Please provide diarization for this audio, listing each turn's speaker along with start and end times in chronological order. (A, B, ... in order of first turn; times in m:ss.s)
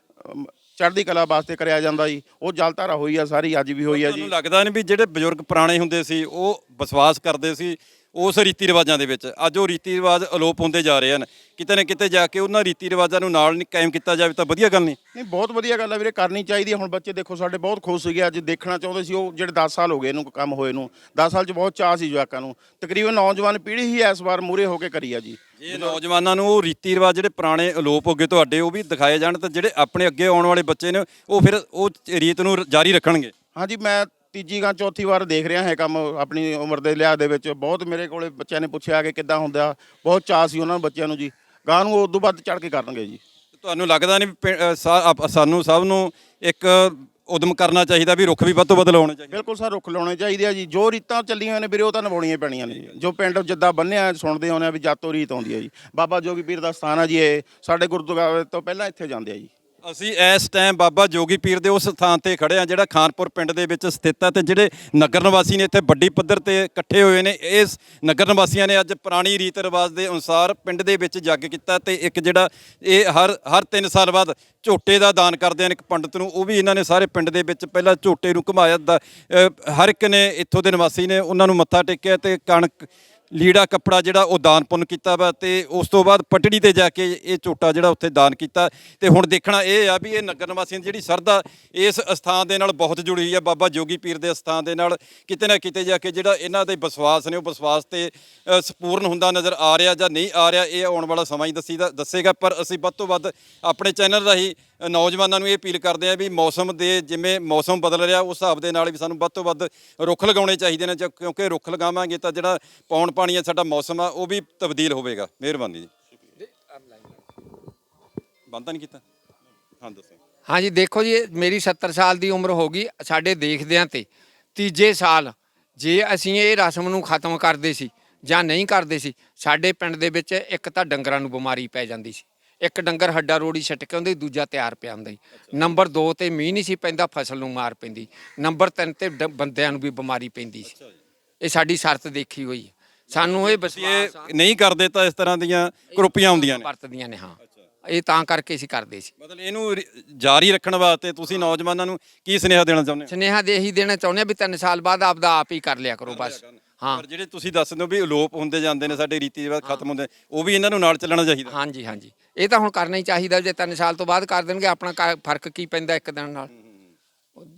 0:00.2-0:04.3 A
0:03.9-0:15.0 B
0:15.1-0:26.0 A
0:25.6-0:33.3 B
0:33.5-0:43.2 A
0:43.6-0:49.4 B
0:49.3-0:59.5 A
0:59.8-1:55.9 B
1:58.5-1:59.0 B
1:59.8-2:00.2 B
2:00.5-2:20.7 C
2:21.4-2:24.3 C
2:23.1-2:26.6 B
2:25.9-2:29.1 C
2:29.2-2:33.1 B
2:33.1-2:37.0 C
2:36.1-2:41.5 B
2:41.5-2:46.5 C